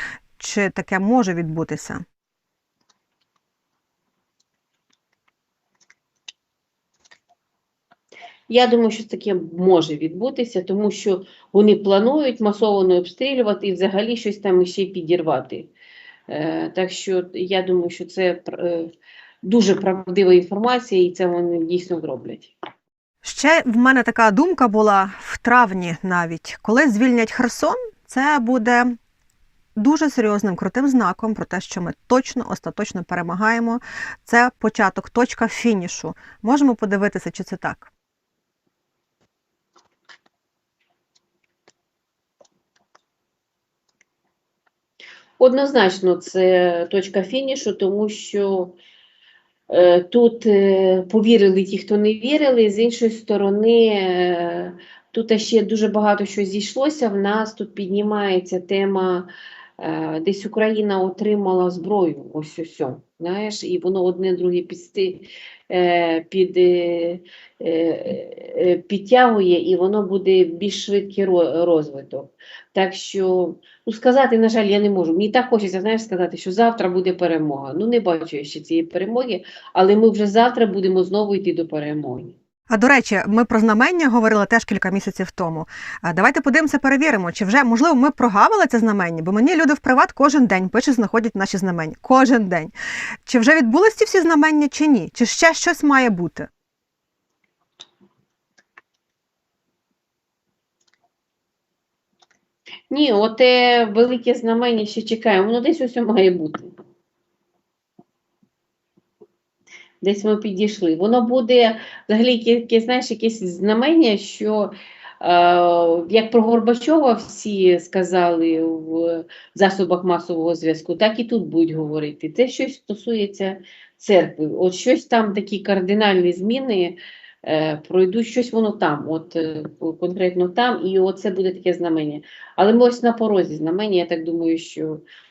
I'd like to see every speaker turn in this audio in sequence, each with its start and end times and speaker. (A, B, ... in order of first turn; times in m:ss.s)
0:00.4-0:02.0 A
0:08.5-0:15.7 B
0:16.3-0:18.9 B
0:19.4-0:22.5 B
0:23.2-0:29.0 A
0:29.8-0:37.9 A
0:45.4-0:48.8 B
0:49.7-1:22.4 B
1:22.7-1:32.7 A
1:33.2-1:36.5 A
1:42.9-1:46.7 B
1:50.0-2:15.0 B